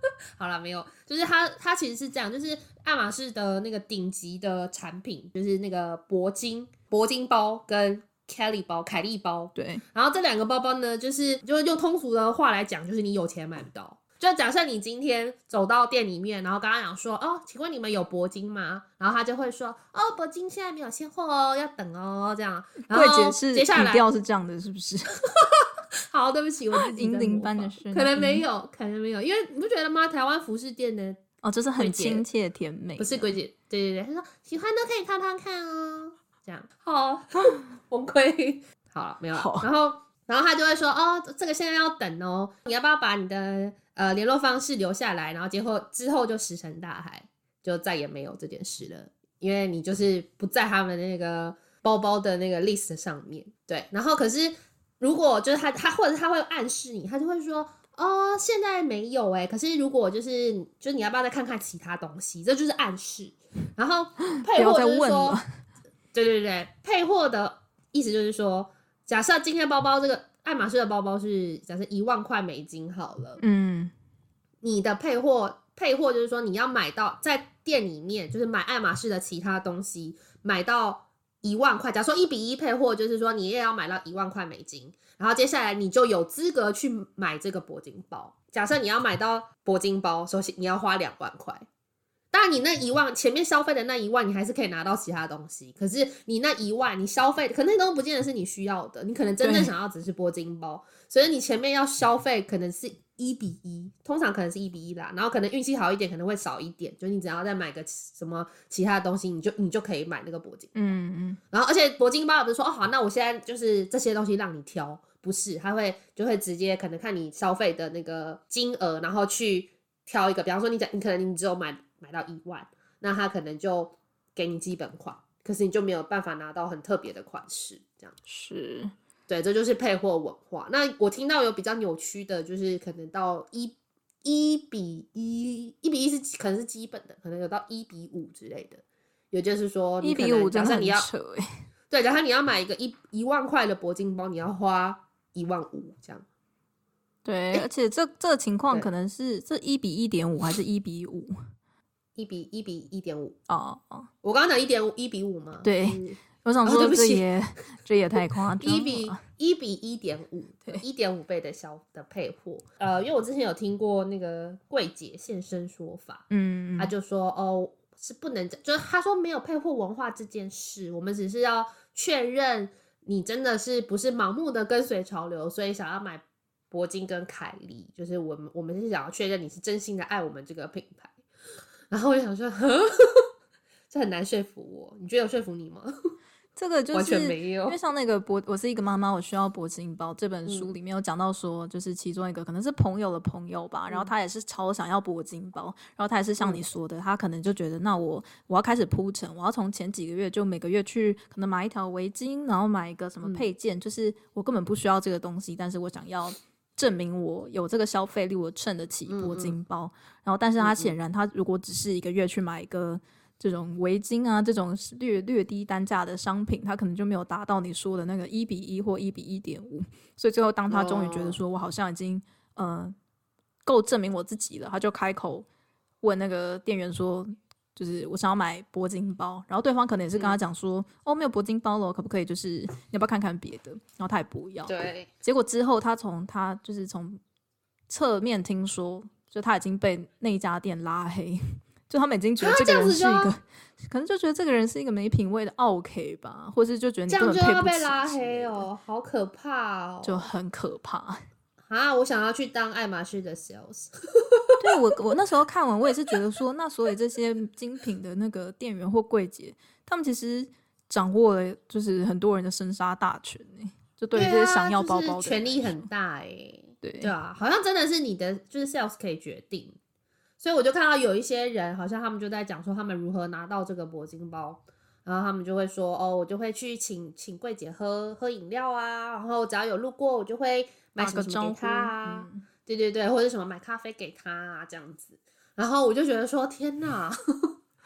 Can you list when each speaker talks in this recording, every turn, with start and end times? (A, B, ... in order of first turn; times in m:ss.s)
0:00.4-0:24.0 A
0:09.6-0:09.8 B
0:22.9-0:25.2 B
0:25.3-0:31.2 A
0:26.8-0:28.5 B
0:31.4-0:33.3 B
0:31.8-0:32.2 A
0:33.0-1:05.4 A
0:39.4-0:39.7 B
1:04.5-1:05.4 B
1:06.1-1:13.4 A
1:13.4-1:13.9 B
1:14.6-1:31.7 A
1:32.3-1:50.7 A
1:39.4-1:39.7 B
1:50.8-1:51.4 B
1:51.5-2:08.2 A
2:08.3-2:08.9 B
2:09.3-2:21.1 A
2:20.0-2:21.5 B
2:21.9-2:26.2 A
2:27.2-2:31.4 B
2:32.2-2:33.4 A
2:33.5-2:34.1 B
2:34.2-2:37.3 A
2:35.6-2:39.2 B
2:38.6-2:46.3 A
2:46.3-2:46.9 B
2:46.8-3:01.2 A
3:01.9-3:03.3 A
3:03.9-3:05.9 A
3:06.6-3:43.0 B
3:06.9-3:07.8 A
3:10.5-3:10.7 A
3:29.1-3:29.6 A
3:30.6-3:30.9 A
3:40.7-3:41.4 A
3:43.6-3:45.5 B
3:46.0-3:57.2 B
3:54.7-3:55.1 A
3:57.9-4:08.7 B
4:02.4-4:03.3 A
4:07.1-4:10.3 A
4:10.0-4:11.2 B
4:11.7-4:14.6 A
4:14.6-4:25.8 B
4:24.2-4:29.8 A
4:26.8-4:27.1 B
4:30.4-4:47.5 A
4:41.0-4:42.4 B